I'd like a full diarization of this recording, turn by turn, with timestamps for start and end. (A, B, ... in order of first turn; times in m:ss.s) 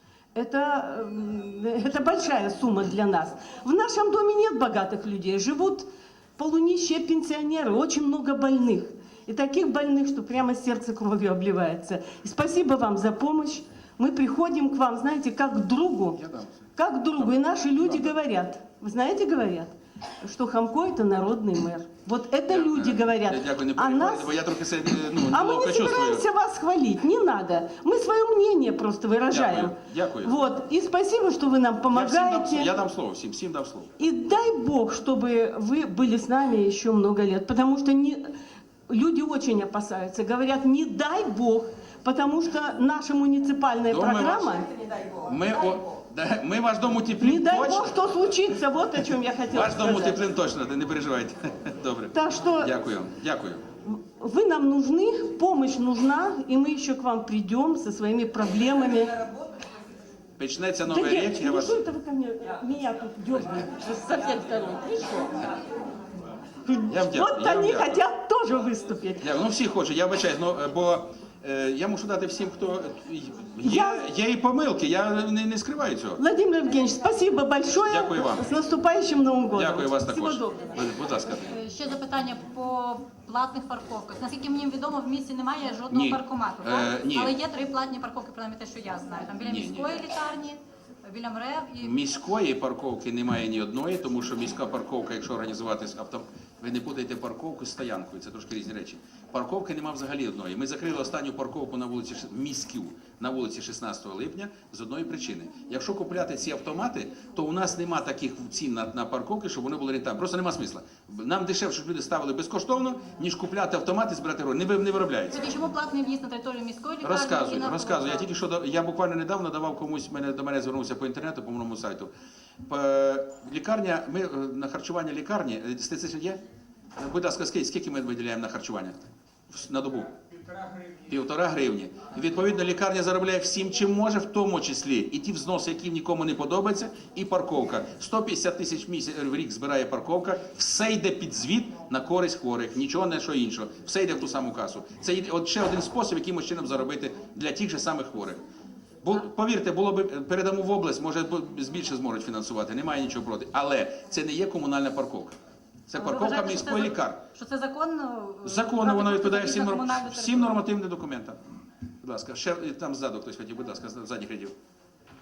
0:00.4-0:16.2 A
0:16.2-0:18.2 B
0:16.8-0:24.4 A
0:22.5-0:26.2 B
0:25.3-0:32.7 A
0:29.3-0:30.4 B
0:31.9-0:33.9 B
0:34.0-0:38.3 A
0:38.9-0:44.7 A
0:43.9-0:44.5 B
0:45.2-0:48.1 B
0:47.2-0:50.2 A
0:49.5-0:53.6 B
0:52.1-0:52.7 A
0:53.9-0:59.2 A
1:00.4-1:01.8 B
1:00.9-1:05.6 A
1:03.3-1:03.6 B
1:06.6-1:09.2 A
1:06.9-1:08.0 B
1:09.2-1:16.2 B
1:13.6-1:14.0 A
1:16.2-1:20.6 A
1:17.9-1:18.5 B
1:19.5-1:21.4 B
1:21.5-1:32.0 C
1:25.9-1:27.4 B
1:29.5-1:30.0 B
1:31.8-1:55.4 B
1:55.3-1:58.3 C
1:57.0-2:02.1 B
2:02.7-2:06.4 B
2:07.0-2:09.0 B
2:09.5-2:10.2 B
2:11.0-2:28.4 B
2:29.0-2:35.4 B
2:35.9-2:37.2 B
2:35.9-2:40.6 C
2:38.4-2:41.4 B
2:42.0-2:44.5 B